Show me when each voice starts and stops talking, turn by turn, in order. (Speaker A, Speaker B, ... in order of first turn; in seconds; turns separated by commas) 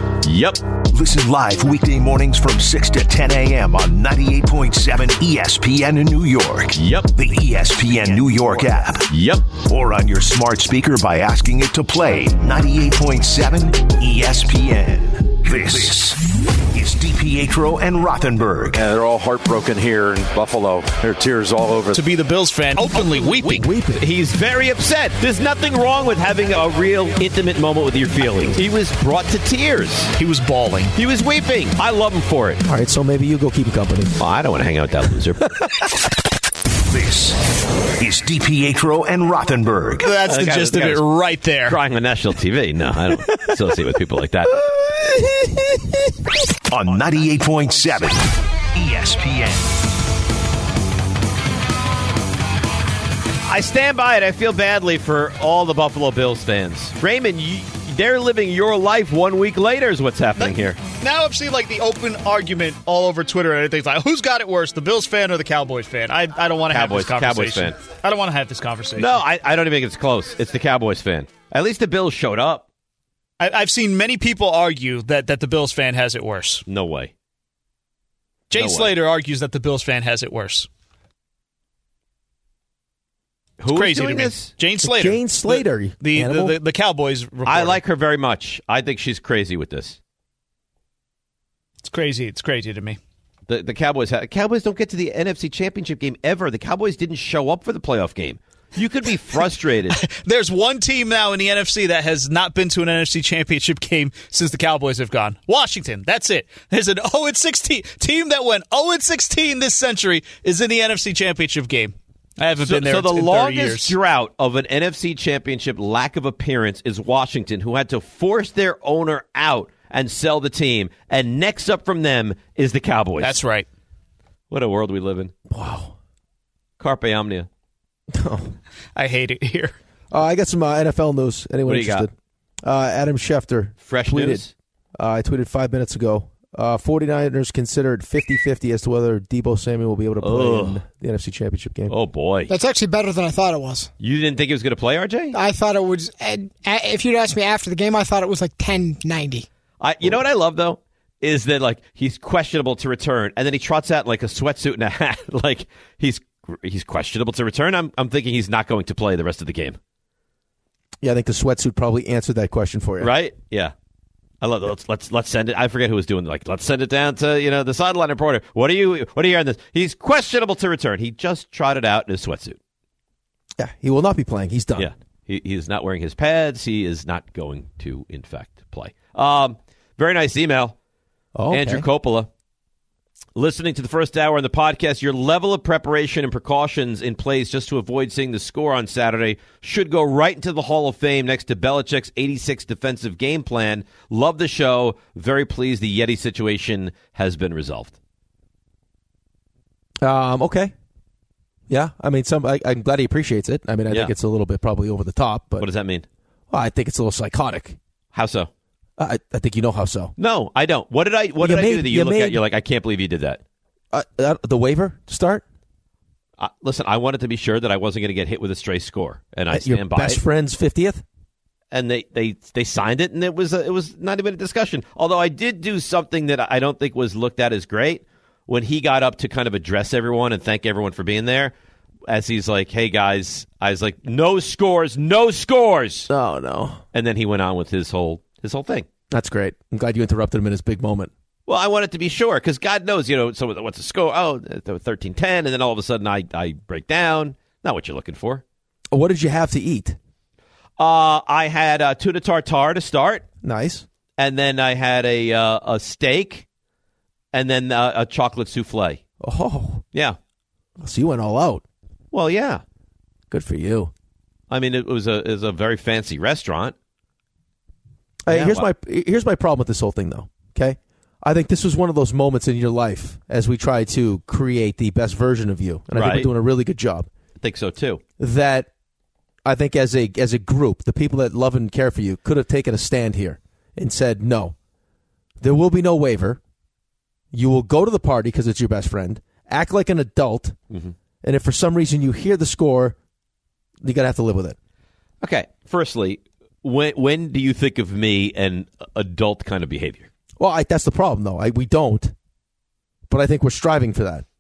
Speaker A: 0.2-0.6, Speaker B: 0.9-18.8, Speaker A: 6.8-7.1, Speaker A: 9.1-9.5, Speaker C: 18.7-22.0, Speaker D: 21.9-23.6, Speaker A: 23.0-30.2, Speaker E: 23.4-24.0, Speaker D: 30.2-30.9, Speaker A: 31.0-32.6, Speaker E: 32.6-34.1, Speaker A: 34.2-35.5, Speaker B: 36.9-37.4, Speaker B: 38.0-40.1, Speaker D: 40.0-41.8, Speaker A: 40.3-41.1, Speaker A: 41.6-44.6, Speaker E: 44.7-45.7, Speaker B: 46.7-49.7, Speaker A: 53.5-60.8, Speaker D: 60.4-69.2, Speaker A: 66.7-67.8, Speaker A: 69.0-72.7, Speaker D: 73.4-76.7, Speaker A: 76.7-77.1, Speaker D: 78.5-80.7, Speaker A: 78.5-79.0, Speaker A: 83.6-84.5, Speaker D: 83.7-87.8, Speaker E: 84.8-86.6, Speaker A: 87.5-90.0, Speaker D: 91.8-93.0, Speaker A: 93.5-100.0, Speaker D: 99.9-114.0, Speaker A: 112.6-123.4, Speaker D: 123.2-123.7, Speaker A: 124.5-125.3, Speaker E: 125.5-126.0, Speaker A: 126.8-127.5, Speaker E: 128.1-128.6, Speaker D: 128.9-129.8, Speaker E: 130.1-132.1, Speaker A: 131.7-132.1, Speaker E: 132.6-134.4, Speaker A: 133.8-134.5, Speaker E: 135.0-141.9, Speaker A: 140.2-140.8, Speaker A: 141.9-142.5, Speaker F: 142.5-143.9, Speaker A: 144.0-145.4, Speaker F: 145.3-149.5, Speaker A: 149.8-159.8, Speaker E: 161.0-163.1, Speaker A: 163.0-163.7, Speaker A: 164.4-172.6, Speaker E: 173.6-174.9, Speaker A: 174.8-180.8, Speaker E: 181.3-181.8, Speaker A: 181.5-182.3, Speaker A: 183.4-198.0, Speaker E: 200.0-200.7, Speaker E: 201.7-205.7, Speaker A: 205.6-206.1, Speaker E: 206.5-207.8, Speaker A: 208.1-208.5, Speaker E: 209.0-210.1, Speaker A: 210.2-213.4, Speaker E: 211.4-212.4, Speaker E: 213.9-215.4, Speaker A: 216.4-220.2, Speaker E: 219.5-221.0, Speaker A: 221.7-231.5, Speaker A: 232.1-236.1, Speaker E: 236.1-236.8, Speaker A: 236.9-238.9, Speaker E: 239.1-241.1, Speaker A: 241.5-248.4, Speaker E: 248.9-250.0, Speaker A: 250.8-253.2, Speaker E: 253.4-253.9, Speaker A: 254.2-256.5, Speaker A: 257.3-259.0, Speaker E: 259.2-259.8, Speaker E: 260.8-261.6, Speaker A: 262.1-262.6, Speaker E: 263.3-263.9, Speaker A: 264.5-266.8, Speaker E: 268.3-277.1, Speaker A: 268.3-268.7, Speaker A: 275.9-276.3, Speaker A: 277.4-278.0, Speaker E: 278.2-278.7, Speaker E: 279.4-284.6, Speaker E: 285.4-286.4, Speaker E: 287.3-290.6, Speaker E: 291.2-293.0, Speaker E: 293.8-294.6, Speaker A: 295.2-300.1, Speaker E: 300.4-302.1, Speaker E: 303.1-304.2